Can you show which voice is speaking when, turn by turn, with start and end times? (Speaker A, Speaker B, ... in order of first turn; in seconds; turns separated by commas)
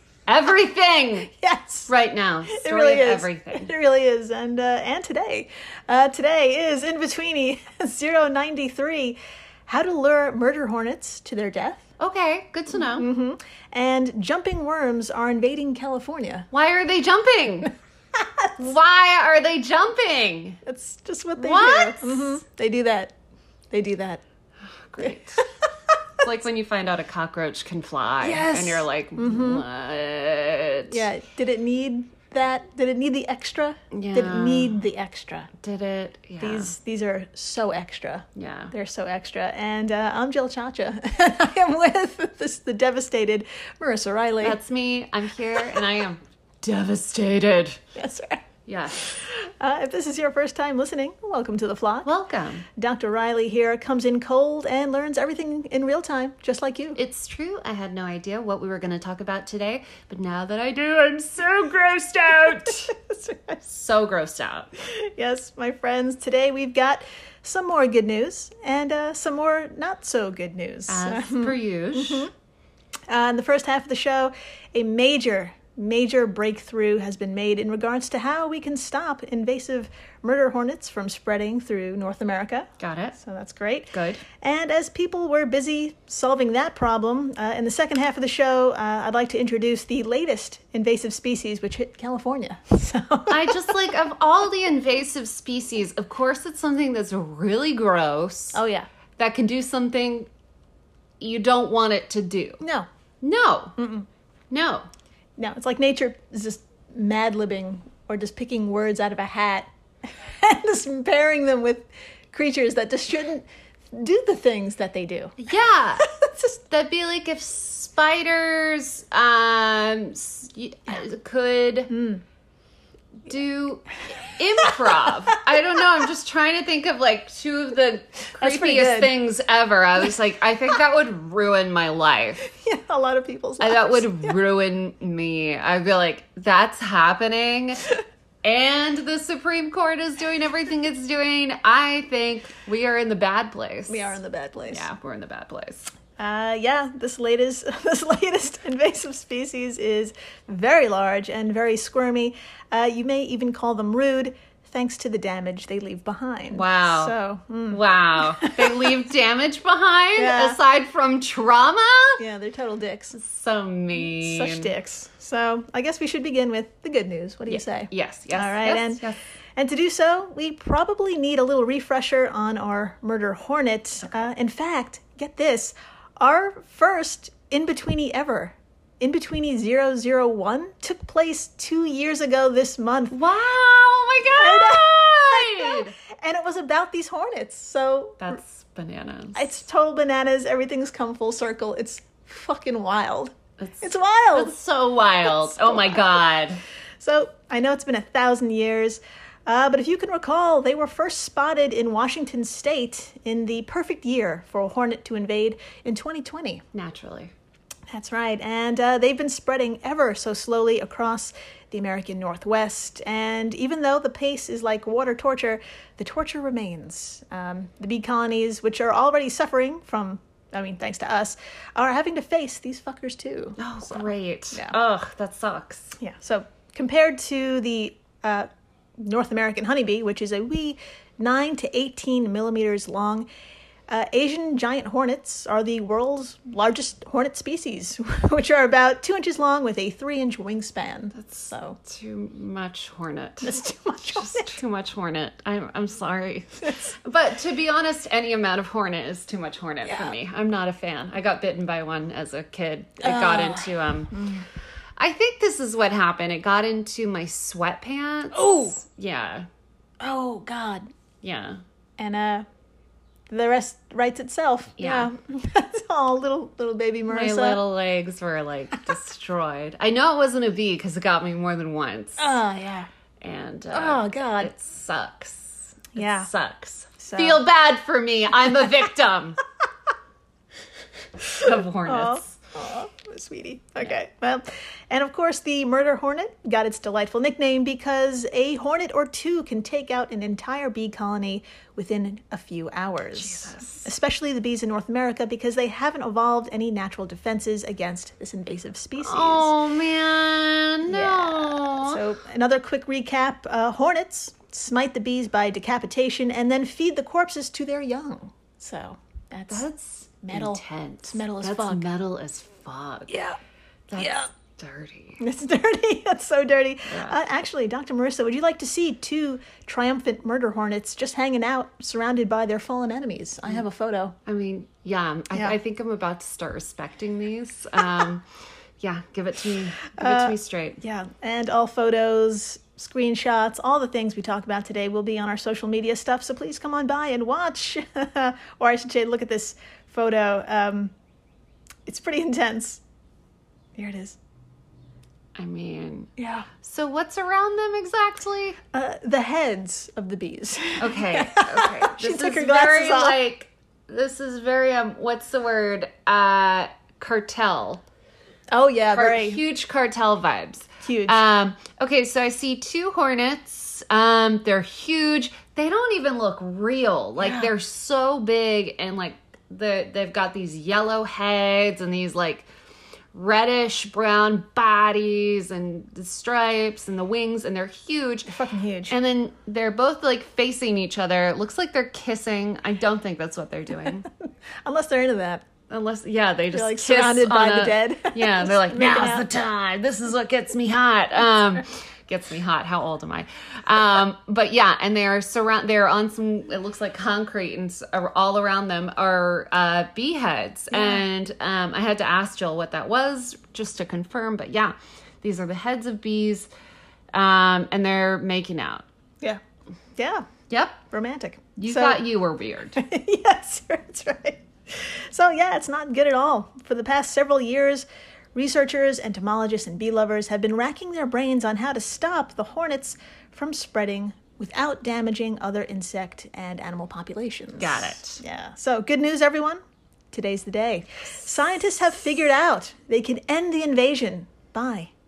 Speaker A: 0.3-1.3, Speaker B: 1.3-1.9, Speaker A: 1.9-3.7, Speaker B: 2.5-11.9, Speaker A: 12.0-13.1, Speaker B: 12.9-16.5, Speaker A: 16.5-17.7, Speaker B: 18.2-18.5, Speaker A: 18.6-20.6, Speaker B: 20.6-23.1, Speaker A: 21.4-22.4, Speaker B: 23.7-24.2, Speaker A: 24.9-25.4, Speaker A: 26.2-31.0, Speaker B: 28.2-29.6, Speaker B: 30.9-35.5, Speaker A: 33.9-34.8, Speaker A: 35.6-36.7, Speaker B: 36.4-44.6, Speaker A: 38.4-38.7, Speaker A: 44.4-47.8, Speaker B: 48.0-48.5, Speaker A: 48.7-49.0, Speaker B: 49.0-52.1, Speaker A: 52.0-52.7, Speaker B: 52.8-57.0, Speaker A: 57.0-62.9, Speaker B: 62.9-63.6, Speaker A: 63.7-64.7, Speaker B: 64.8-72.3, Speaker A: 70.9-72.3, Speaker B: 73.1-93.7, Speaker A: 82.8-83.2, Speaker A: 83.9-84.2, Speaker A: 93.3-98.6, Speaker B: 98.5-98.9, Speaker A: 99.2-100.3, Speaker A: 101.2-102.6, Speaker B: 102.6-102.9, Speaker A: 103.2-103.8, Speaker B: 103.8-104.1, Speaker A: 104.5-104.9, Speaker B: 105.4-115.4, Speaker A: 115.4-116.1, Speaker B: 116.0-116.6, Speaker A: 116.7-121.9, Speaker B: 121.9-122.2, Speaker A: 123.3-132.4, Speaker B: 128.4-129.2, Speaker B: 132.5-134.4, Speaker A: 133.6-137.9, Speaker A: 138.4-144.2, Speaker B: 143.9-144.9, Speaker A: 144.7-145.9, Speaker B: 146.2-158.9, Speaker A: 156.5-157.2, Speaker A: 157.7-162.2, Speaker B: 160.2-160.6, Speaker B: 162.2-163.2, Speaker A: 163.1-164.7, Speaker B: 164.0-169.0, Speaker A: 167.5-169.2, Speaker B: 169.6-183.2, Speaker A: 174.0-174.3, Speaker A: 183.1-185.9, Speaker B: 184.3-188.4, Speaker A: 188.2-189.4, Speaker B: 189.3-194.5, Speaker A: 193.6-196.6, Speaker B: 195.4-196.1, Speaker B: 197.0-206.6, Speaker A: 206.7-207.3, Speaker B: 207.9-224.8, Speaker A: 223.6-226.0, Speaker B: 226.0-233.3, Speaker B: 233.9-241.8, Speaker A: 241.1-254.1, Speaker B: 243.4-244.6, Speaker B: 249.9-250.1, Speaker B: 253.0-254.5, Speaker A: 255.0-259.5, Speaker B: 258.3-258.8, Speaker B: 260.0-260.9, Speaker A: 261.2-261.6, Speaker B: 262.0-262.5, Speaker B: 263.3-267.6, Speaker A: 264.8-265.1, Speaker A: 267.1-272.4, Speaker B: 272.2-272.9, Speaker A: 273.2-279.4, Speaker B: 273.7-274.5, Speaker B: 275.9-276.3, Speaker B: 277.0-277.4, Speaker A: 281.4-282.4, Speaker B: 281.4-299.5, Speaker A: 293.1-293.9, Speaker A: 299.0-302.0, Speaker B: 300.9-309.7, Speaker A: 309.5-313.2, Speaker B: 310.2-311.9, Speaker B: 313.1-313.4, Speaker A: 313.9-315.2, Speaker B: 314.0-314.3, Speaker B: 315.2-324.2, Speaker A: 316.9-317.2, Speaker A: 324.3-328.2, Speaker A: 328.8-330.8, Speaker B: 329.9-340.9, Speaker B: 341.9-342.8, Speaker B: 343.8-344.2, Speaker A: 345.4-348.6, Speaker B: 346.2-346.5, Speaker B: 348.7-353.2, Speaker A: 350.8-357.8, Speaker B: 358.5-359.4, Speaker A: 358.9-372.5, Speaker B: 360.8-361.3, Speaker B: 367.2-367.5, Speaker A: 373.1-378.3, Speaker B: 378.3-378.9, Speaker A: 378.9-384.1, Speaker B: 384.6-385.4, Speaker A: 385.7-406.5, Speaker B: 386.5-389.3, Speaker B: 400.7-401.0, Speaker A: 407.1-408.9, Speaker B: 410.0-410.3, Speaker A: 410.5-410.8, Speaker B: 410.9-412.0, Speaker A: 411.6-412.8, Speaker B: 412.8-429.6, Speaker A: 427.6-428.2, Speaker B: 430.1-434.9